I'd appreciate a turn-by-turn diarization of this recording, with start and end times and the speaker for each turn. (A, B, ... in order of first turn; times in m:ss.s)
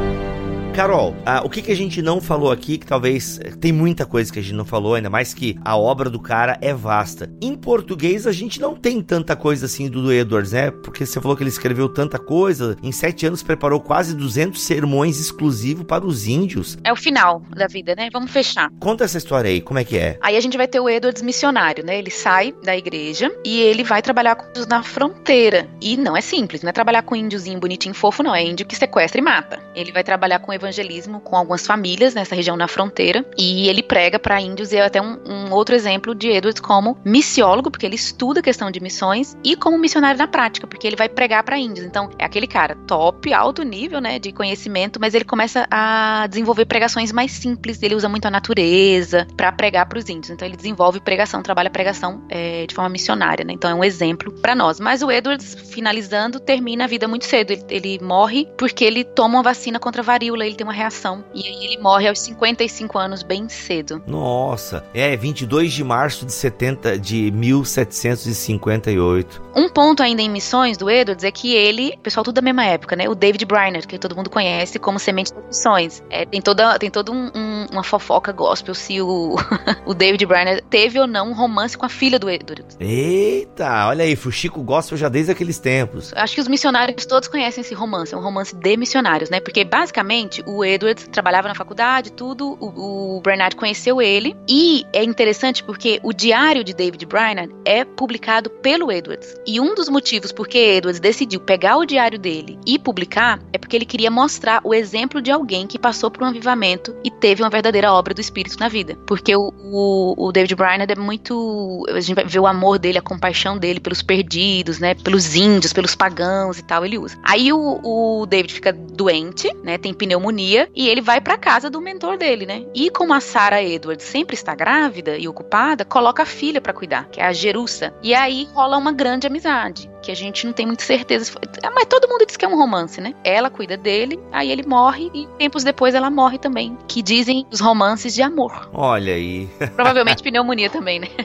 0:00.7-0:16.8 A
0:16.8-0:18.7 B
0:18.8-0:20.2 A
0:20.2-1:04.0 B
1:04.0-1:09.4 A
1:09.5-1:22.8 B
1:22.8-1:26.1 A
1:26.1-2:18.7 B
2:18.7-2:20.2 A
2:19.8-2:21.1 B